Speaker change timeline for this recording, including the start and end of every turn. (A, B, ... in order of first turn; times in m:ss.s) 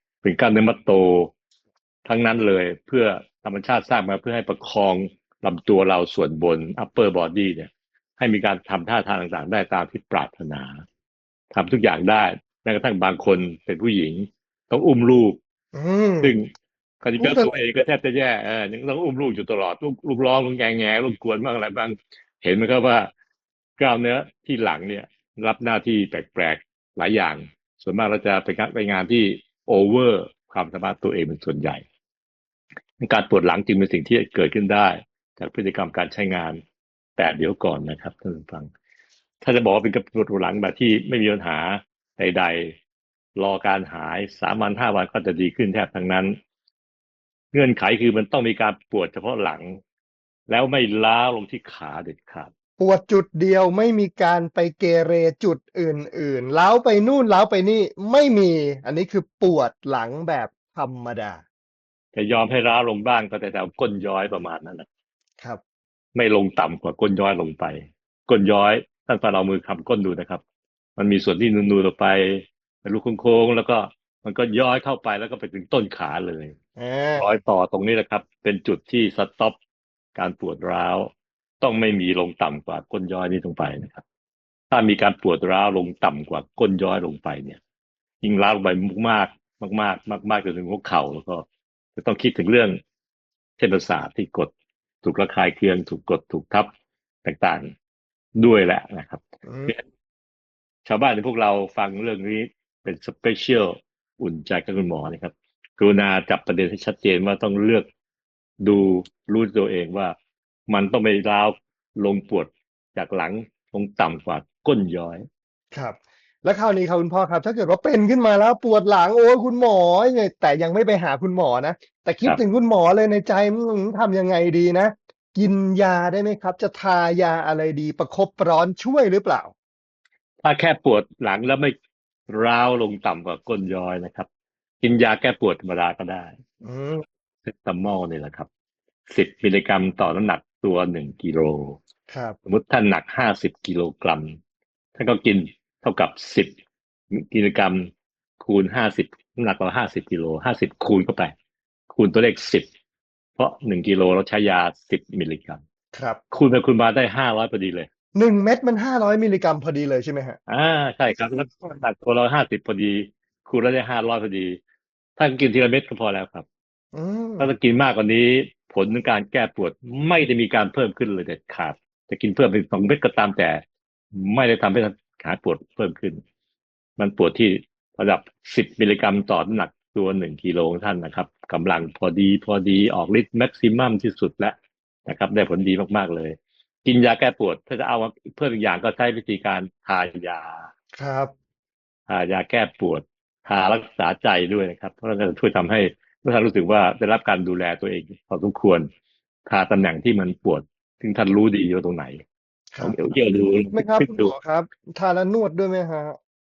0:00.2-0:01.3 A
0:02.0-0:10.8 A
0:11.5-0:15.4 A
0:15.7-0:16.3 B
0:16.2-0:16.5 A
0:17.0-0:23.1 A
0:17.2-0:17.5 B
0:23.8-0:31.8 A
0:33.0-0:36.6 A
0:37.2-0:38.7 A
0:39.4-0:42.7 A
0:43.4-0:46.3 A
0:47.5-0:49.8 A
0:50.5-0:52.5 A
0:52.8-1:01.4 B
1:02.1-1:04.8 A
1:06.1-1:10.4 A
1:11.0-1:16.5 A
1:16.8-1:17.3 B
1:17.2-1:19.6 A
1:20.1-1:21.1 A
1:21.6-1:24.0 A
1:24.7-1:27.6 A
1:28.2-1:32.8 A
1:33.6-1:34.5 A
1:35.0-1:36.7 A
1:37.2-1:37.7 A
1:38.4-1:39.8 A
1:39.4-1:39.7 B
1:40.8-1:47.9 A
1:48.6-1:50.2 A
1:50.7-1:55.2 A
1:55.7-2:09.5 B
2:10.4-2:11.7 A
2:12.3-2:14.3 A
2:14.8-2:16.3 A
2:16.6-2:17.0 B
2:17.4-2:18.5 A
2:19.1-2:21.8 A
2:22.1-2:22.4 B
2:22.4-2:24.4 A
2:25.0-2:26.5 A
2:27.1-2:31.3 A
2:31.9-2:32.7 A
2:33.4-2:35.6 A
2:35.9-2:36.2 B
2:36.3-2:37.9 A
2:38.1-2:40.4 B
2:40.5-2:44.6 A
2:41.2-2:41.7 B
2:45.2-2:46.4 A
2:46.9-2:47.5 B
2:47.4-2:53.6 A
2:54.1-2:56.2 A
2:57.0-3:10.7 A
3:11.0-3:11.3 B
3:12.1-3:18.9 A
3:19.5-3:22.2 A
3:22.8-3:24.3 A
3:23.7-3:26.2 B